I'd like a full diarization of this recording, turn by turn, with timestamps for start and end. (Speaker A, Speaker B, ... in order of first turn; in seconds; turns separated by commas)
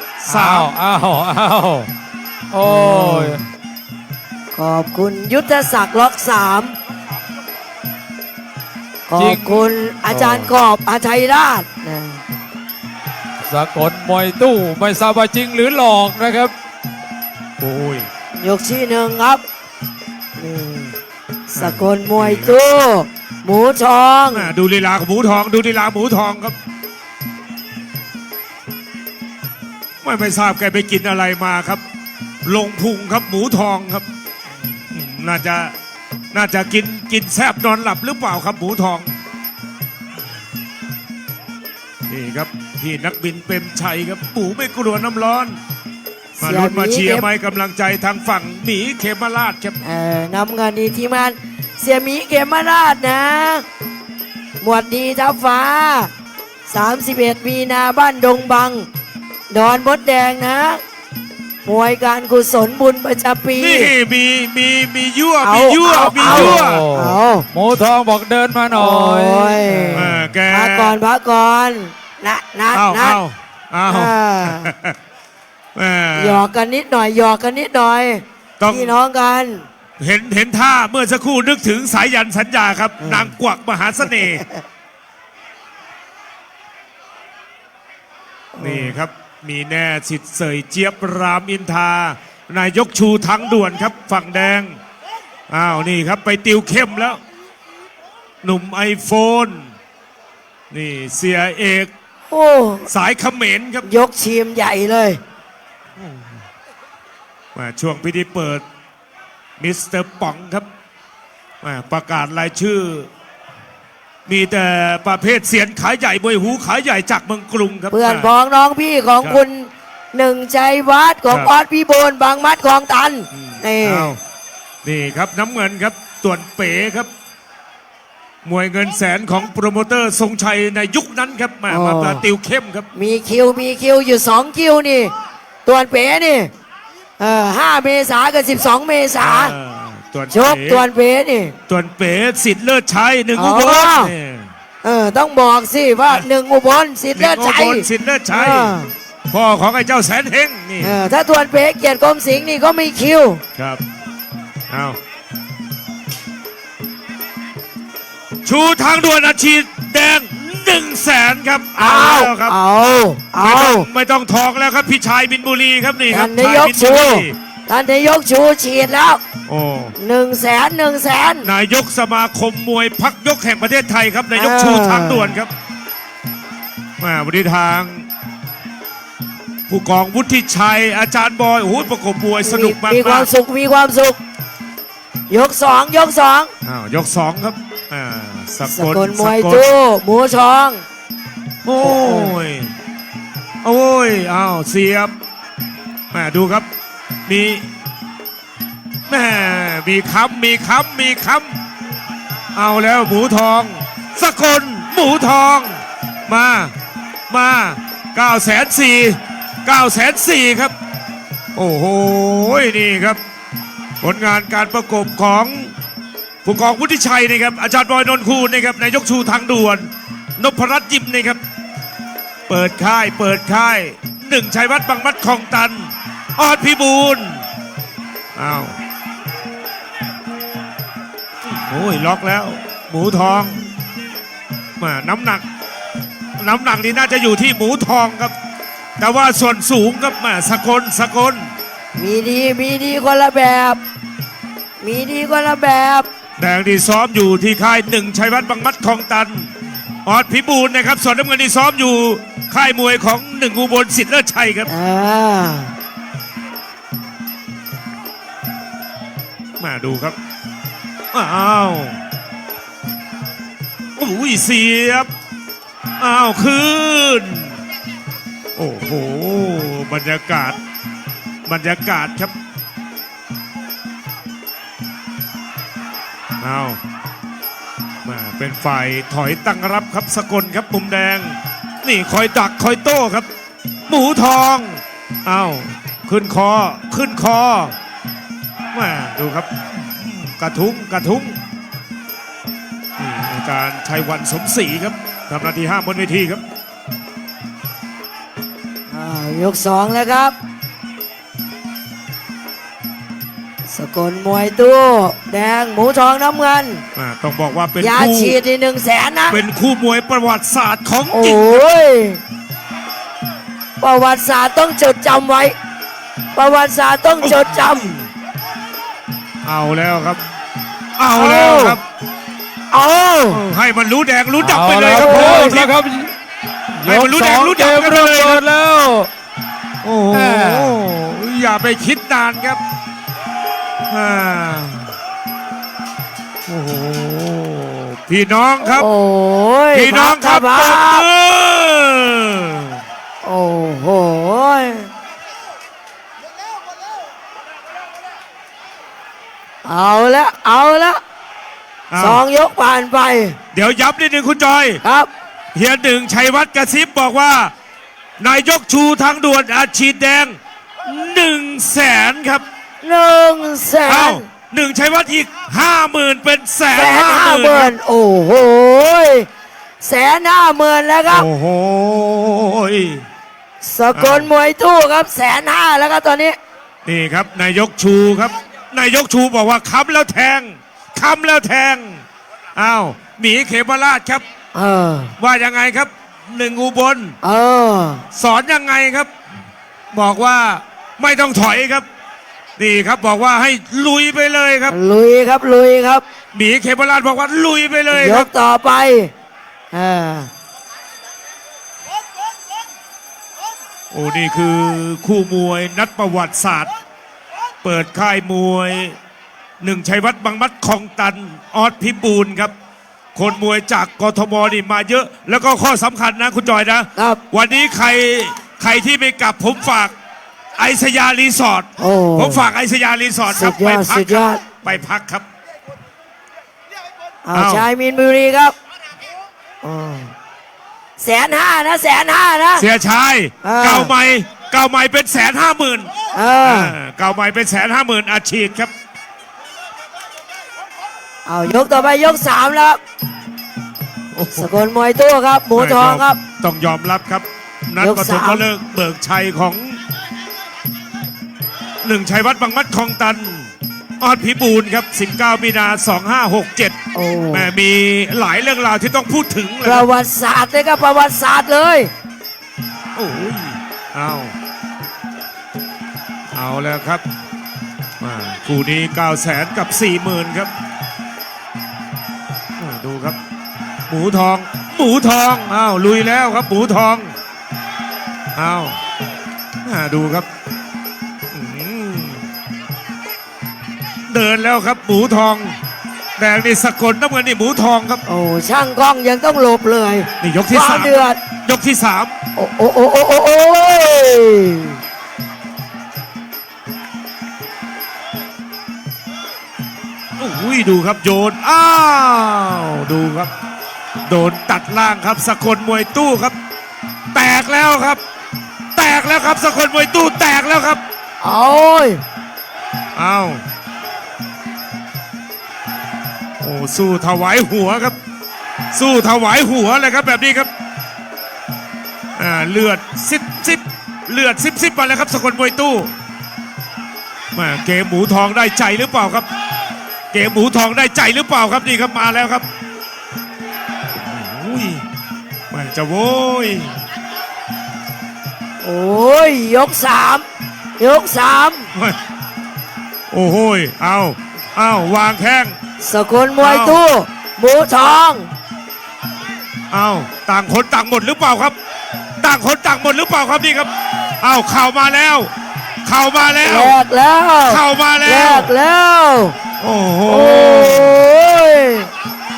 Speaker A: 0.2-0.7, Speaker B: 0.3-1.9, Speaker B: 2.5-3.4, Speaker C: 2.6-3.4, Speaker C: 4.5-6.8, Speaker C: 9.1-12.2, Speaker B: 9.2-10.5, Speaker B: 13.4-16.5, Speaker A: 17.6-18.1, Speaker C: 18.4-19.4, Speaker C: 20.4-20.9, Speaker C: 21.5-24.5, Speaker A: 21.6-22.6, Speaker A: 24.3-26.6, Speaker A: 30.0-31.8, Speaker A: 32.5-34.1, Speaker A: 34.9-35.8, Speaker A: 36.3-39.1, Speaker A: 42.1-45.6, Speaker C: 46.4-47.3, Speaker A: 46.4-49.8, Speaker C: 49.8-53.6, Speaker C: 54.6-56.1, Speaker C: 56.7-58.9, Speaker C: 59.5-60.8, Speaker C: 61.6-63.9, Speaker A: 63.6-66.8, Speaker C: 65.4-67.5, Speaker B: 66.1-70.2, Speaker C: 68.7-73.2, Speaker A: 69.9-71.0, Speaker A: 72.7-75.0, Speaker C: 73.9-74.7, Speaker A: 75.8-76.5, Speaker C: 76.2-79.7, Speaker A: 78.6-79.0, Speaker A: 80.0-84.4, Speaker C: 83.0-83.3, Speaker C: 84.0-84.6, Speaker C: 88.5-89.0, Speaker A: 88.6-94.7, Speaker A: 95.5-97.2, Speaker A: 98.4-99.7, Speaker A: 100.7-101.9, Speaker C: 102.3-102.9, Speaker A: 102.9-103.9, Speaker C: 103.8-105.2, Speaker A: 107.5-108.6, Speaker A: 109.6-110.7, Speaker A: 111.6-113.1, Speaker A: 114.3-118.3, Speaker C: 117.9-124.1, Speaker A: 123.3-124.2, Speaker A: 124.8-127.1, Speaker A: 128.4-132.9, Speaker C: 131.7-132.2, Speaker C: 132.9-135.1, Speaker C: 135.7-136.5, Speaker C: 137.2-139.6, Speaker A: 139.2-140.9, Speaker C: 140.3-141.6, Speaker A: 141.7-144.5, Speaker C: 143.3-144.1, Speaker C: 144.8-148.9, Speaker A: 147.2-148.8, Speaker A: 149.3-151.0, Speaker C: 150.8-153.4, Speaker A: 153.6-153.8, Speaker A: 154.7-155.0, Speaker A: 158.4-162.6, Speaker C: 161.8-163.9, Speaker A: 163.4-167.3, Speaker C: 166.1-169.2, Speaker A: 169.5-169.9, Speaker C: 170.0-171.5, Speaker A: 171.4-175.5, Speaker C: 174.3-175.4, Speaker A: 177.0-178.1, Speaker A: 179.7-183.3, Speaker C: 182.4-184.2, Speaker C: 185.3-186.5, Speaker A: 186.6-189.7, Speaker C: 188.7-190.8, Speaker A: 191.6-192.7, Speaker C: 191.8-192.4, Speaker A: 193.6-195.1, Speaker A: 196.1-196.7, Speaker A: 197.3-197.7, Speaker A: 199.1-201.6, Speaker A: 202.6-206.7, Speaker A: 207.3-210.8, Speaker A: 211.6-213.2, Speaker A: 214.0-215.7, Speaker A: 216.4-221.4, Speaker A: 222.5-227.4, Speaker A: 228.3-228.7, Speaker A: 231.5-233.6, Speaker A: 234.8-235.4, Speaker A: 236.4-238.3, Speaker A: 239.0-241.5, Speaker C: 242.0-243.8, Speaker C: 244.8-246.1, Speaker A: 246.4-249.5, Speaker A: 250.1-254.7, Speaker C: 254.7-255.7, Speaker A: 259.6-260.2, Speaker A: 261.1-262.0, Speaker A: 264.0-265.1, Speaker A: 266.0-267.6, Speaker A: 268.6-270.6, Speaker A: 271.5-272.3, Speaker A: 276.4-276.8, Speaker A: 278.0-283.3, Speaker A: 283.9-287.8, Speaker A: 288.7-291.4, Speaker A: 293.0-296.4, Speaker C: 298.9-300.4, Speaker C: 303.7-306.8, Speaker A: 306.9-308.4, Speaker C: 307.8-309.4, Speaker A: 309.3-311.6, Speaker C: 311.1-312.2, Speaker C: 313.8-315.6, Speaker C: 316.4-318.0, Speaker A: 317.2-317.9, Speaker A: 319.4-320.2, Speaker A: 321.0-321.8, Speaker C: 321.1-321.8, Speaker C: 322.7-323.4, Speaker A: 323.3-325.7, Speaker B: 324.4-326.1, Speaker C: 324.9-325.6, Speaker B: 326.7-329.1, Speaker A: 326.8-328.4, Speaker A: 329.8-332.6, Speaker B: 330.1-330.8, Speaker A: 333.9-334.9, Speaker A: 336.5-338.9, Speaker C: 338.6-341.1, Speaker A: 339.7-342.8, Speaker C: 343.2-344.9, Speaker C: 349.6-351.0, Speaker A: 351.9-352.2, Speaker C: 352.0-353.4, Speaker A: 353.5-354.8, Speaker C: 354.8-355.1, Speaker A: 355.6-357.5, Speaker A: 358.2-362.4, Speaker C: 362.8-364.3, Speaker A: 363.9-367.7, Speaker C: 366.7-369.3, Speaker C: 369.8-371.3, Speaker A: 371.1-373.0, Speaker C: 373.6-376.4, Speaker A: 373.9-374.3, Speaker A: 376.9-382.0, Speaker A: 382.6-384.2, Speaker C: 384.5-385.1, Speaker A: 385.2-387.2, Speaker C: 387.2-388.0, Speaker A: 388.1-389.1, Speaker A: 389.9-391.9, Speaker A: 392.6-394.8, Speaker C: 394.7-396.0, Speaker A: 396.3-398.3, Speaker C: 397.9-399.1, Speaker C: 399.7-400.3, Speaker A: 403.9-406.7, Speaker A: 407.6-409.0, Speaker A: 409.6-412.5, Speaker A: 413.1-419.9, Speaker C: 417.0-417.2, Speaker A: 420.6-425.3, Speaker C: 421.8-422.4, Speaker C: 423.3-424.4, Speaker C: 427.3-428.5, Speaker A: 427.3-427.7, Speaker C: 429.6-430.1, Speaker C: 431.0-432.7, Speaker A: 432.6-435.9, Speaker C: 433.4-433.9, Speaker C: 436.1-436.8, Speaker A: 436.4-438.7, Speaker C: 441.3-442.8, Speaker A: 444.1-444.5, Speaker C: 444.3-446.2, Speaker A: 445.6-449.8, Speaker C: 447.8-448.5, Speaker A: 451.8-456.8, Speaker C: 456.9-457.5, Speaker A: 457.3-459.9, Speaker C: 459.6-461.9, Speaker A: 462.9-464.3, Speaker A: 466.3-467.0, Speaker A: 468.0-470.5, Speaker A: 472.6-473.2, Speaker A: 473.9-477.1, Speaker A: 478.4-478.8, Speaker A: 479.6-480.3, Speaker A: 481.3-482.3, Speaker A: 484.1-485.6, Speaker A: 486.2-488.0, Speaker C: 488.1-491.2, Speaker A: 490.2-492.1, Speaker C: 492.4-494.8, Speaker A: 500.2-503.3, Speaker A: 504.1-506.4, Speaker A: 507.1-508.0, Speaker A: 508.8-510.8, Speaker C: 511.2-512.0, Speaker A: 513.0-513.4, Speaker A: 516.4-518.0, Speaker A: 518.7-520.5, Speaker A: 522.2-525.9, Speaker A: 527.4-529.3, Speaker A: 530.1-532.5, Speaker A: 534.0-534.8, Speaker A: 535.5-536.8, Speaker C: 538.6-540.2, Speaker C: 540.8-541.7, Speaker A: 543.1-545.6, Speaker C: 545.8-548.3, Speaker A: 546.4-546.8, Speaker A: 549.7-551.6, Speaker A: 552.2-555.3, Speaker A: 555.9-556.8, Speaker C: 556.4-559.4, Speaker A: 557.5-558.5, Speaker A: 559.6-561.0, Speaker C: 560.1-561.9